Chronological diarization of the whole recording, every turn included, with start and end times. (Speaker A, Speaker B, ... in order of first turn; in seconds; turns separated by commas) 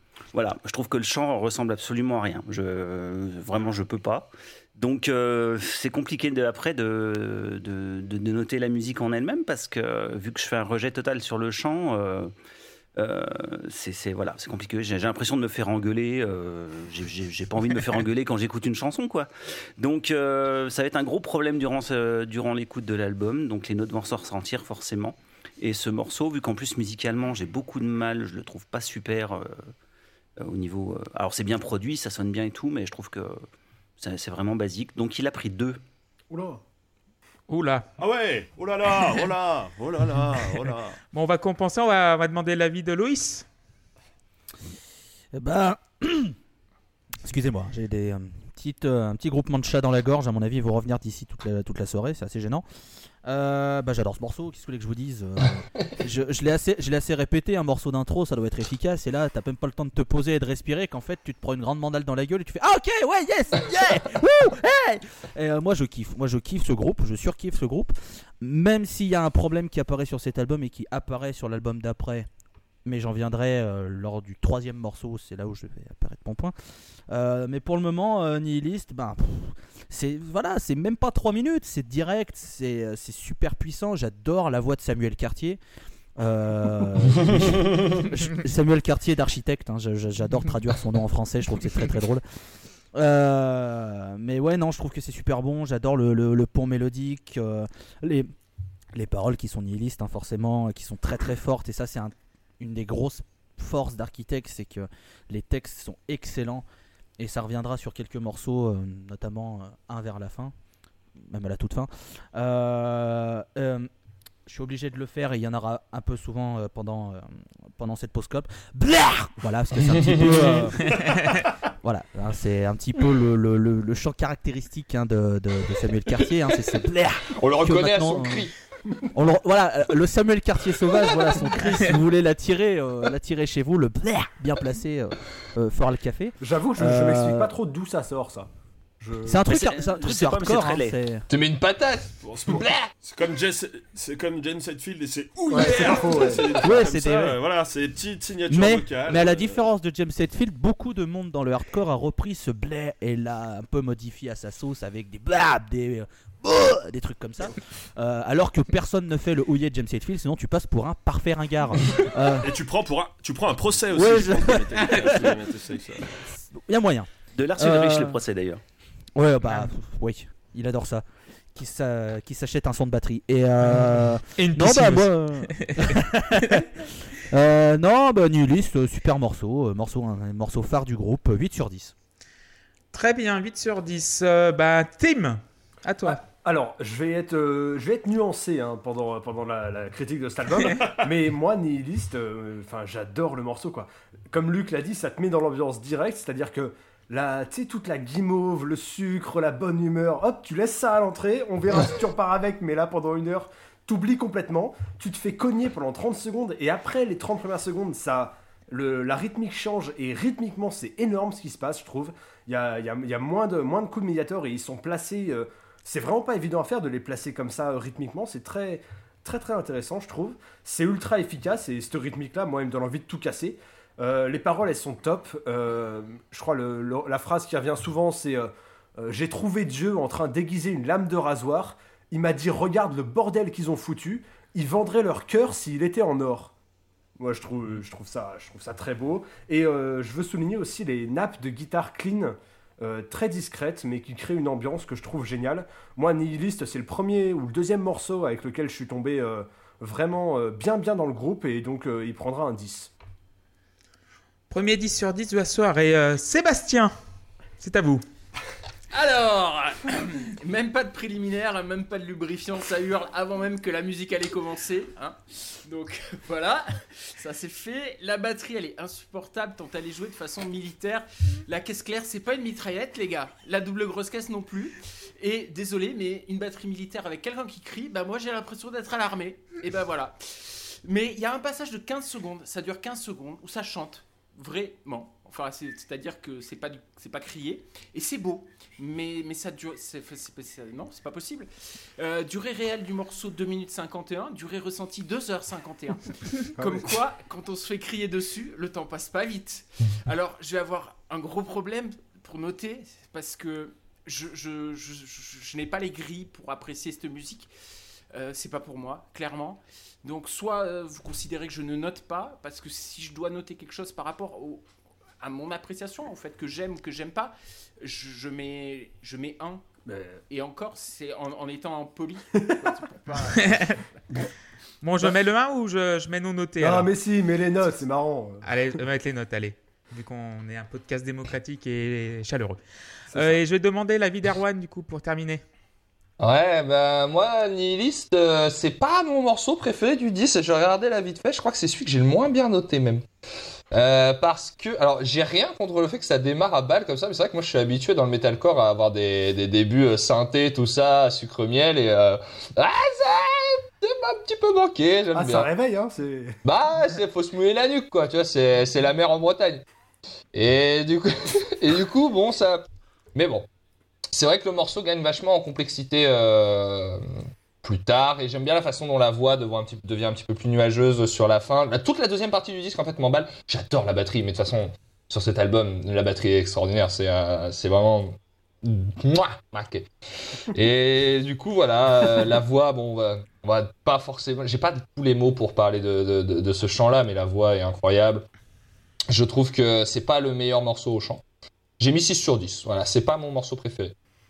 Speaker A: 0.3-12.3, Speaker A: 13.0-29.7, Speaker A: 30.4-33.4, Speaker A: 34.0-35.8, Speaker B: 36.3-36.6, Speaker C: 37.5-37.9, Speaker D: 38.0-41.0, Speaker C: 41.1-43.5, Speaker E: 45.3-46.4, Speaker E: 47.2-52.6, Speaker E: 53.2-72.3, Speaker E: 72.8-76.5, Speaker E: 77.1-85.6, Speaker E: 86.2-92.2, Speaker E: 92.9-98.3, Speaker E: 98.9-106.7, Speaker E: 107.2-110.5, Speaker E: 111.2-113.9, Speaker E: 114.5-121.3, Speaker F: 119.9-120.7, Speaker E: 121.8-128.5, Speaker F: 127.3-128.5, Speaker E: 129.1-137.5, Speaker B: 136.4-138.5, Speaker B: 139.0-139.4, Speaker E: 139.3-141.2, Speaker A: 139.5-141.0, Speaker F: 141.3-142.9, Speaker D: 142.2-149.7, Speaker B: 145.5-146.6, Speaker E: 146.6-147.4, Speaker E: 148.5-162.5, Speaker D: 162.4-166.1, Speaker E: 163.9-165.4, Speaker E: 166.3-168.2, Speaker A: 167.3-168.6, Speaker E: 169.2-181.9, Speaker C: 173.7-176.7, Speaker C: 182.9-186.2, Speaker B: 186.1-236.5, Speaker B: 237.2-252.9, Speaker C: 254.5-256.9, Speaker C: 257.6-258.0, Speaker G: 258.9-307.5, Speaker B: 296.6-297.0, Speaker G: 308.1-314.6, Speaker G: 315.2-319.6, Speaker B: 319.9-320.2, Speaker G: 320.3-323.8, Speaker C: 323.4-323.8, Speaker C: 324.8-326.9, Speaker B: 326.6-328.4, Speaker C: 328.4-332.6, Speaker C: 333.1-335.4, Speaker B: 333.1-333.4, Speaker F: 336.2-343.0, Speaker F: 343.7-355.5, Speaker B: 355.1-356.4, Speaker F: 356.4-359.6, Speaker F: 360.3-362.6, Speaker F: 363.1-363.5, Speaker F: 364.1-367.0, Speaker F: 367.6-388.2, Speaker F: 389.1-391.2, Speaker F: 391.8-393.9